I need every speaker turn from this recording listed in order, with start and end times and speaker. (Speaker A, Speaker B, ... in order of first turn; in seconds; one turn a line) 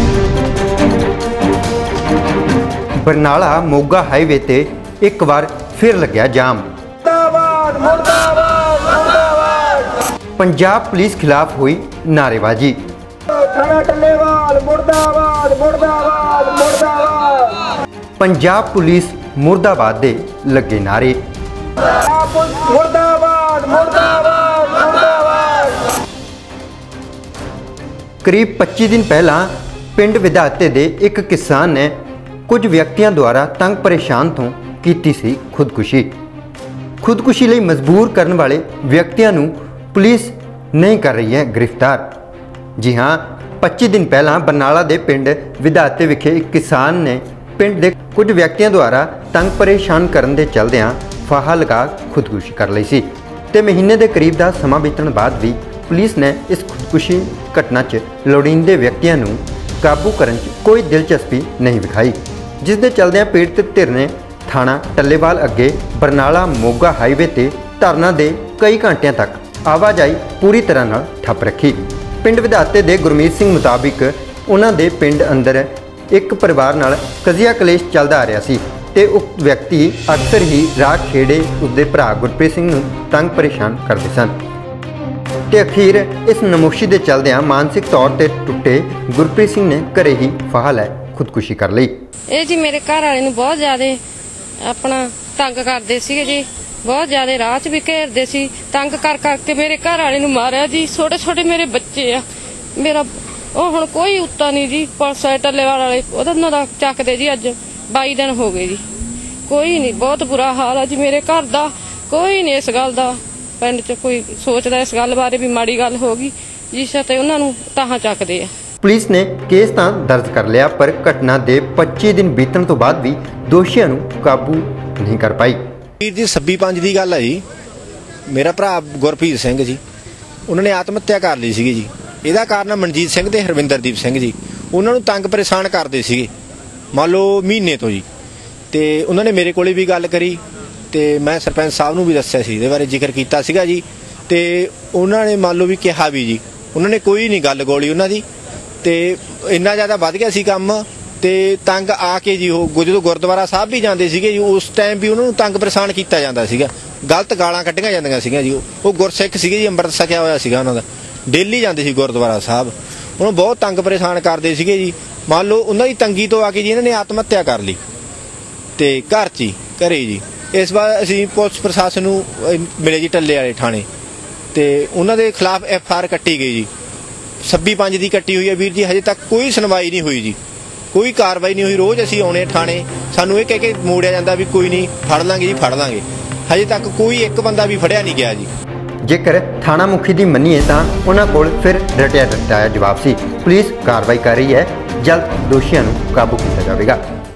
Speaker A: 3.0-6.7
Speaker B: 7.0-10.0
Speaker A: 10.4-12.8
Speaker B: 13.3-17.7
Speaker A: 18.2-21.2
Speaker B: 22.0-25.8
Speaker A: 28.2-31.9
Speaker A: 32.5-36.1
Speaker A: 37.0-42.1
Speaker A: 42.8-84.3
Speaker A: 85.5-91.9
Speaker C: 92.3-94.0
Speaker C: 94.7-102.2
Speaker C: 102.8-108.8
Speaker C: 109.5-118.5
Speaker A: 118.8-125.6
Speaker D: 126.0-127.4
Speaker D: 128.3-129.8
Speaker D: 130.5-136.3
Speaker D: 136.9-138.1
Speaker D: 138.7-148.2
Speaker D: 148.8-167.8
Speaker D: 168.8-173.9
Speaker D: 174.5-176.7
Speaker D: 177.4-180.4
Speaker D: 180.9-188.5
Speaker A: 189.1-197.0